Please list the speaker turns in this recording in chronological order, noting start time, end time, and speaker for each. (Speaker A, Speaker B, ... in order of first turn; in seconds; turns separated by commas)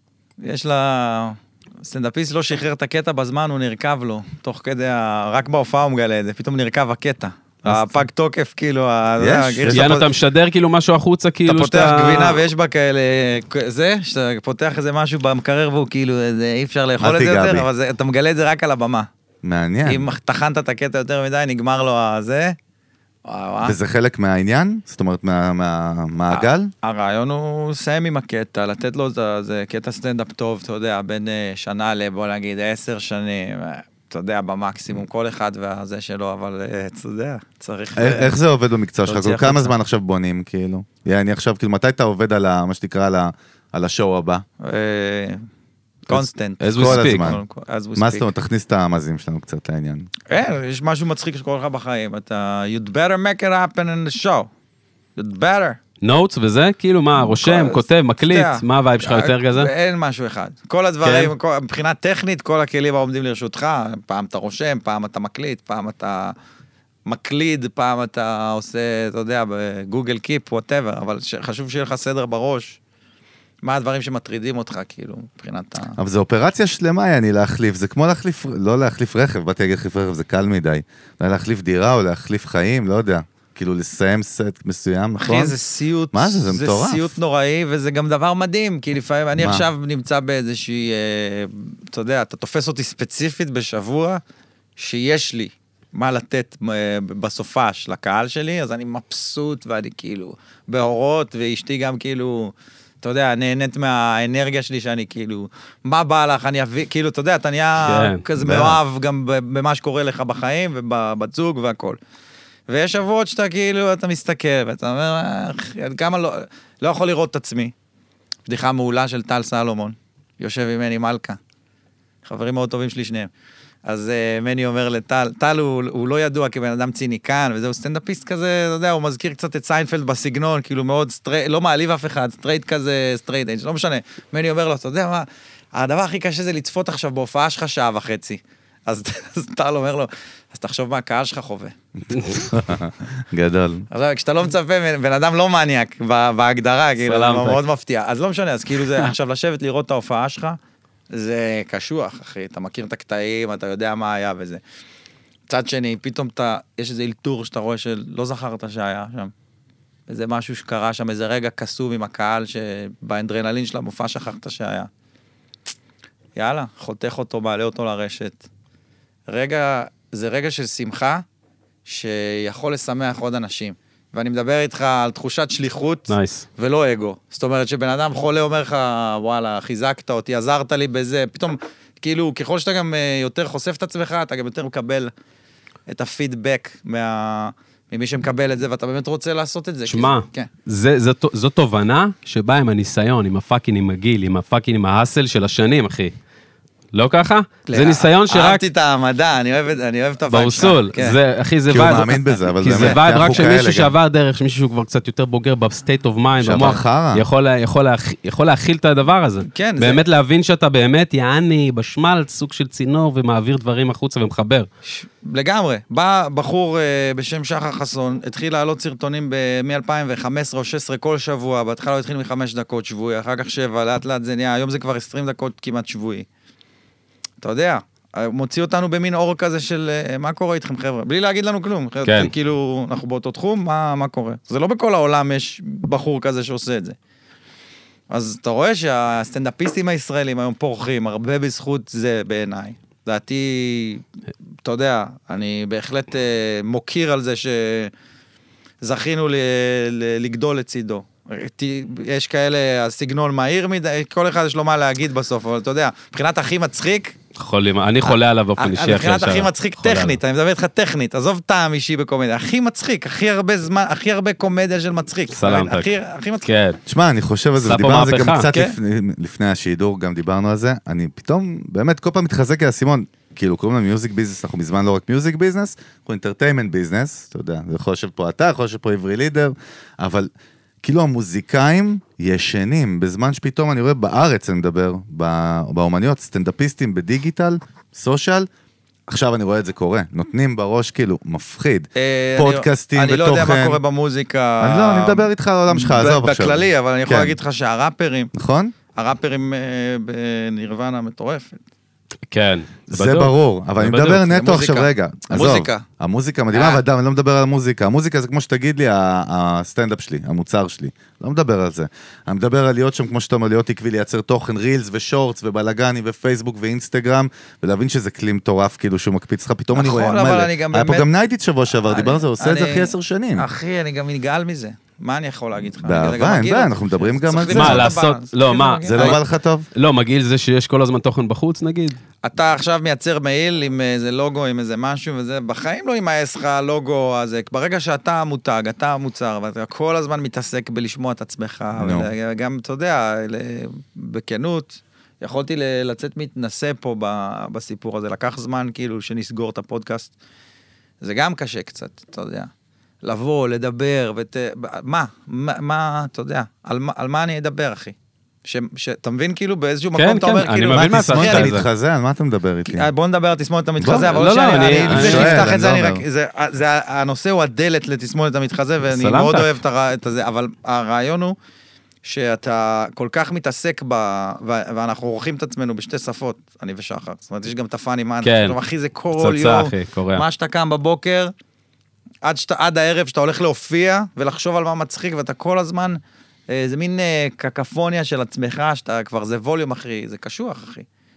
Speaker A: 0.4-10.1, Speaker B: 7.7-7.9, Speaker B: 9.2-9.9, Speaker C: 9.7-12.4, Speaker A: 11.5-19.1, Speaker B: 17.0-17.7, Speaker B: 19.4-20.1, Speaker A: 19.9-22.6, Speaker A: 23.3-23.8, Speaker B: 23.6-26.7, Speaker A: 26.3-38.4, Speaker B: 38.0-44.4, Speaker A: 39.1-39.7, Speaker A: 44.6-45.4, Speaker A: 46.1-48.3, Speaker B: 46.1-47.4, Speaker C: 46.6-47.4, Speaker B: 48.0-50.1, Speaker A: 50.3-54.5, Speaker A: 55.2-55.8, Speaker C: 56.0-59.7, Speaker A: 57.2-66.3, Speaker C: 61.0-61.3, Speaker A: 67.1-72.8, Speaker A: 73.6-76.0, Speaker B: 76.0-85.5, Speaker A: 85.2-94.2, Speaker B: 86.1-87.1, Speaker B: 89.4-89.7, Speaker A: 94.8-112.0, Speaker C: 107.8-108.2, Speaker B: 108.4-108.8, Speaker A: 112.7-117.7, Speaker A: 118.5-121.4, Speaker A: 122.2-123.3, Speaker A: 123.8-142.4, Speaker B: 142.1-143.9, Speaker A: 143.9-150.6, Speaker C: 147.0-147.6, Speaker A: 151.1-154.6, Speaker A: 155.5-159.3, Speaker A: 160.1-164.9, Speaker A: 166.4-168.4, Speaker A: 169.3-171.2, Speaker A: 171.9-185.1, Speaker C: 176.1-176.5, Speaker A: 185.9-190.5, Speaker C: 189.9-196.1, Speaker C: 196.9-198.7, Speaker A: 197.7-201.2, Speaker C: 200.3-214.7, Speaker B: 201.7-203.9, Speaker B: 206.4-207.2, Speaker A: 209.5-210.0, Speaker A: 214.9-226.3, Speaker A: 227.4-237.0, Speaker C: 232.1-232.3, Speaker A: 238.1-244.1, Speaker A: 244.6-247.9, Speaker A: 248.8-257.2, Speaker C: 257.4-260.2, Speaker A: 258.1-266.5, Speaker C: 265.3-265.9, Speaker C: 266.4-266.8, Speaker B: 266.9-280.3, Speaker C: 267.6-268.5, Speaker B: 280.8-288.5, Speaker B: 289.1-293.8, Speaker A: 291.9-298.3, Speaker B: 294.6-297.4, Speaker B: 298.3-298.7, Speaker A: 298.9-301.6, Speaker C: 302.3-304.3, Speaker B: 302.9-323.5, Speaker A: 304.3-305.8, Speaker A: 306.5-306.8, Speaker A: 319.7-321.1, Speaker A: 321.8-329.2, Speaker B: 325.8-327.9, Speaker C: 327.5-329.2, Speaker B: 328.8-329.7, Speaker C: 329.8-332.0, Speaker A: 332.2-350.1, Speaker B: 341.8-342.1, Speaker A: 351.0-352.5, Speaker A: 353.0-361.6, Speaker C: 360.0-361.7, Speaker B: 360.7-362.9, Speaker A: 362.7-371.4, Speaker B: 363.8-366.1, Speaker C: 364.1-365.4, Speaker C: 368.9-369.6, Speaker A: 372.0-381.3, Speaker C: 378.2-378.6, Speaker C: 379.1-380.2, Speaker A: 382.2-390.9